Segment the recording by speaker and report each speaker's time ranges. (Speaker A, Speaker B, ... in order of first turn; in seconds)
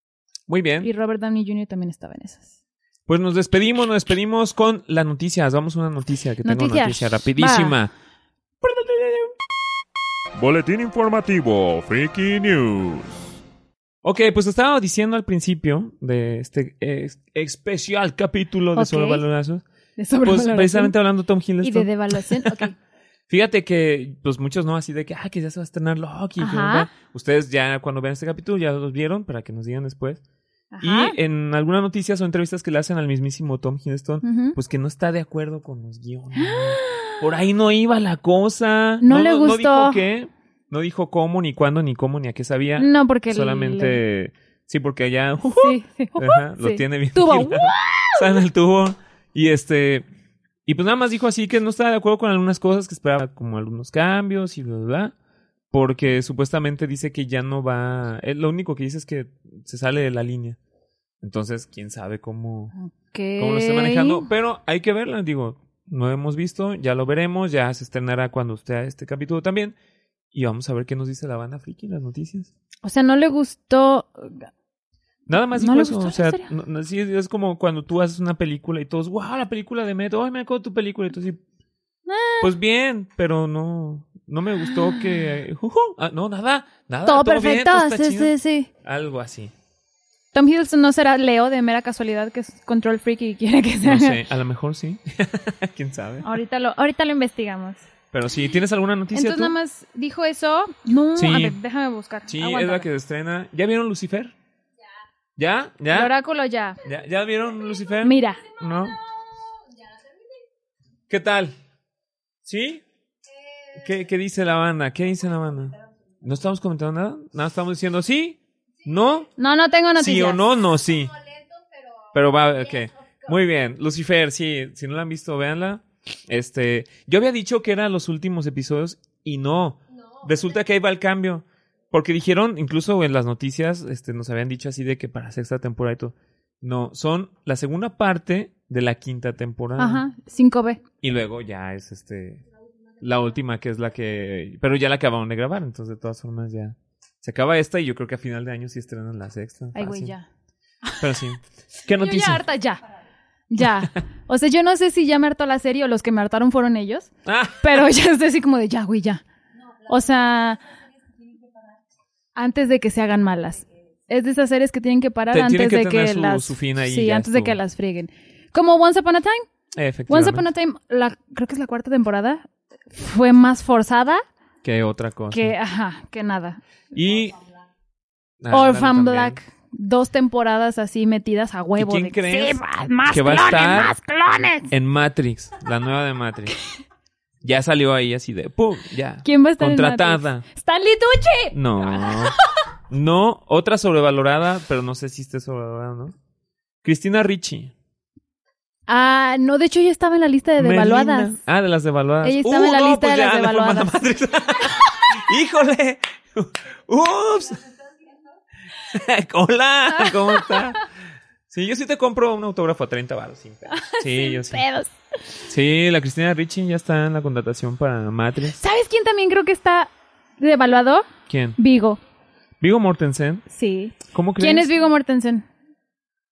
Speaker A: 0.5-0.9, 3.1-7.9, 8.6-9.3, 14.0-19.6, 20.2-22.6, 23.3-30.2, 30.8-50.0, 50.6-55.1, 55.7-60.6, 61.2-62.7, 63.4-69.8, 70.3-72.5, 75.3-81.4, 82.4-88.3, 88.8-89.5, 93.8-96.3, 98.1-99.6, 101.2-101.6, 102.3-104.3, 105.4-106.1, 106.8-109.0, 111.1-111.5, 112.4-112.8, 113.7-119.3, 120.0-121.2, 122.1-140.0, 141.0-142.4, 143.0-150.1, 151.0-152.4, 157.2-157.8, 165.3-167.6, 169.7-170.4, 174.6-175.5, 176.9-177.4, 178.4-179.4, 181.7-184.0, 184.7-186.5, 187.4-190.4, 191.5-192.3, 192.9-196.2, 196.8-197.7, 200.6-207.7, 208.8-210.9, 211.5-214.6, 215.5-218.6, 221.3-221.6, 222.6-223.4, 224.0-224.7
Speaker B: 0.8-2.5, 6.4-7.7, 18.8-19.2, 20.0-20.9, 21.6-22.8, 26.4-26.9, 30.7-31.1, 34.2-34.5, 36.3-37.2, 39.0-40.0, 42.8-44.0, 45.5-48.4, 62.8-64.3, 72.8-74.5, 75.5-76.5, 82.0-82.5, 84.7-85.3, 87.0-88.7, 90.3-94.2, 96.2-97.8, 99.1-102.9, 105.9-106.8, 108.0-108.5, 119.4-120.4, 139.8-140.8, 149.7-150.3, 152.0-152.8, 153.5-159.2, 159.8-160.6, 162.3-169.4, 170.1-174.2, 175.3-176.6, 178.5-184.7, 189.2-192.3, 198.9-201.4, 202.2-204.0, 209.9-210.6, 213.7-214.9, 218.5-222.0, 223.5-225.4
Speaker C: 10.3-13.4